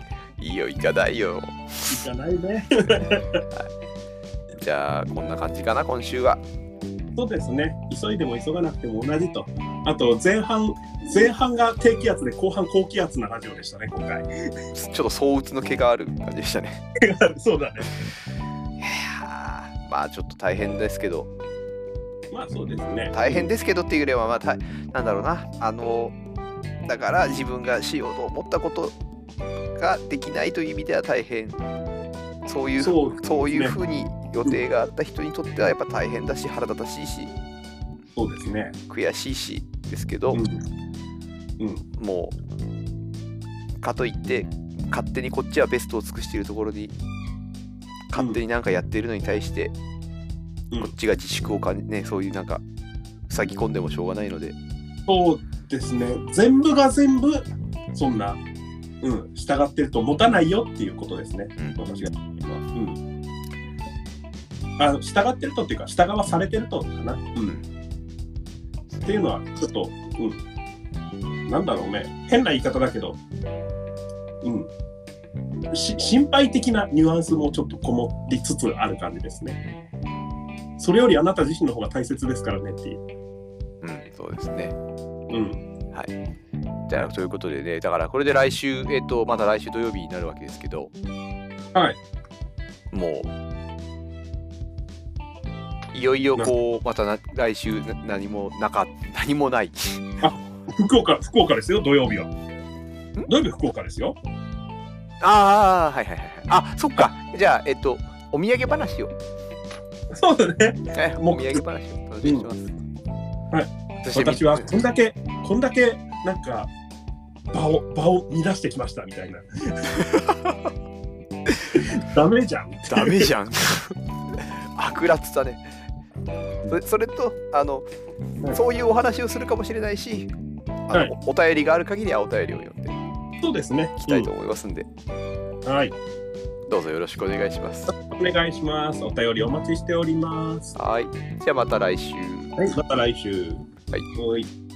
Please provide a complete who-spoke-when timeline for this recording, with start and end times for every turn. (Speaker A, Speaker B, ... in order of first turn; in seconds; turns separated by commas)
Speaker A: 0.4-2.0, Speaker B: 1.9-3.4, Speaker A: 4.6-6.4, Speaker B: 7.1-14.3, Speaker A: 14.7-16.8, Speaker B: 17.0-17.9, Speaker A: 18.8-21.3, Speaker B: 22.3-23.5, Speaker A: 23.1-26.1, Speaker A: 26.9-28.9, Speaker A: 29.8-31.6, Speaker A: 32.5-37.3, Speaker B: 32.8-33.8, Speaker B: 38.1-38.7, Speaker A: 38.9-40.4, Speaker B: 40.3-40.6, Speaker B: 41.6-41.8, Speaker A: 42.0-42.3, Speaker A: 43.8-46.9, Speaker A: 48.1-49.7, Speaker B: 48.1-48.4, Speaker A: 50.8-52.6, Speaker A: 53.3-54.5, Speaker B: 55.0-58.4, Speaker B: 59.0-63.0, Speaker B: 64.8-67.6, Speaker B: 69.0-70.4, Speaker B: 71.5-73.2, Speaker B: 74.4-74.7, Speaker B: 75.7-79.6, Speaker B: 80.8-83.0, Speaker A: 83.8-84.8, Speaker B: 85.3-85.6, Speaker A: 86.9-90.9, Speaker B: 91.7-92.0, Speaker A: 92.9-93.3, Speaker A: 95.9-100.1, Speaker B: 100.2-102.3, Speaker B: 103.3-104.2, Speaker A: 105.2-109.1, Speaker B: 110.1-111.6, Speaker A: 110.9-112.7, Speaker B: 113.5-116.7, Speaker A: 114.0-114.8, Speaker B: 117.5-120.0, Speaker A: 119.9-120.7, Speaker A: 121.5-121.8, Speaker B: 121.7-123.3, Speaker A: 122.9-125.7, Speaker A: 126.7-127.8, Speaker A: 128.5-130.3, Speaker A: 130.9-133.0, Speaker B: 133.4-134.3, Speaker A: 134.0-134.9, Speaker B: 135.6-135.9, Speaker A: 136.7-137.9, Speaker B: 137.9-140.8, Speaker A: 140.8-142.6, Speaker B: 142.6-144.5